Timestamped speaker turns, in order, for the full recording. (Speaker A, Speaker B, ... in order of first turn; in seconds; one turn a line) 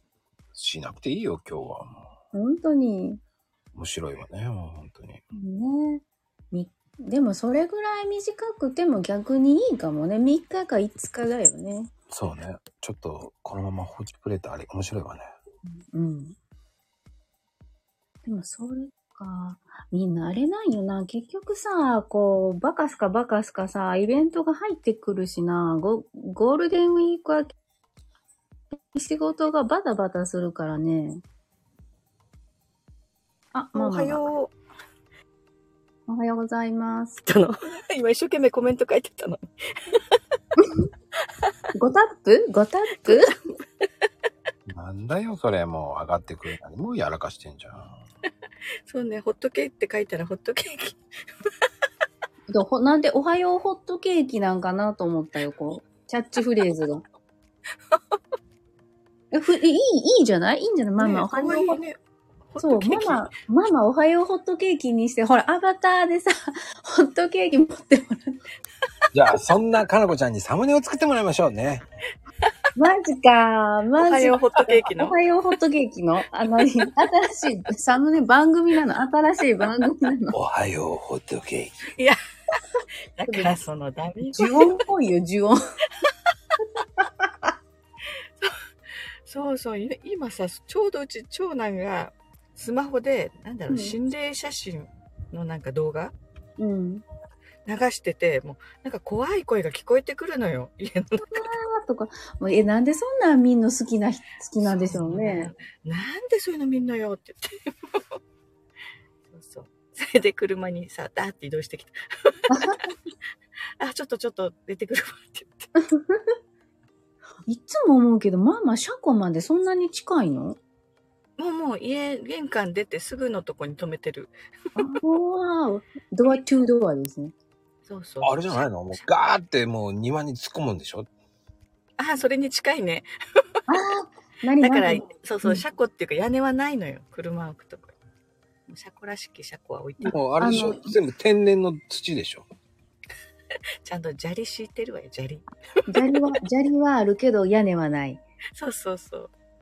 Speaker A: 0.5-2.0
Speaker B: 2.3-3.2
Speaker A: 3.7-5.2
Speaker B: 5.3-11.9
Speaker A: 12.1-15.3
Speaker B: 15.9-16.4
Speaker B: 18.2-27.5
Speaker B: 28.9-31.2
Speaker B: 33.5-34.2
Speaker C: 33.8-34.5
Speaker B: 36.1-37.2
Speaker C: 37.3-40.0
Speaker B: 40.6-40.9
Speaker B: 41.7-43.3
Speaker A: 44.7-48.0
Speaker C: 48.9-51.0
Speaker B: 52.5-57.0
Speaker B: 59.3-61.8
Speaker C: 61.0-62.0
Speaker C: 62.5-63.2
Speaker B: 62.6-68.3
Speaker A: 69.1-71.9
Speaker B: 72.8-80.3
Speaker C: 74.0-75.2
Speaker A: 80.3-81.8
Speaker C: 83.2-84.8
Speaker B: 83.3-83.5
Speaker B: 84.4-85.6
Speaker B: 87.0-87.3
Speaker C: 89.2-96.1
Speaker B: 93.7-94.0
Speaker B: 96.6-97.0
Speaker C: 97.7-101.5
Speaker B: 101.3-105.5
Speaker C: 104.6-108.2
Speaker C: 109.3-112.8
Speaker B: 112.5-112.9
Speaker C: 113.8-115.7
Speaker B: 115.9-116.2
Speaker B: 117.5-120.6
Speaker C: 121.4-124.3
Speaker B: 124.8-127.3
Speaker C: 127.9-129.1
Speaker A: 128.2-131.1
Speaker C: 132.0-133.1
Speaker B: 133.7-135.6
Speaker C: 134.6-137.9
Speaker C: 138.7-140.2
Speaker A: 140.1-142.5
Speaker B: 140.4-140.9
Speaker C: 143.8-146.2
Speaker B: 145.9-148.2
Speaker C: 148.6-149.3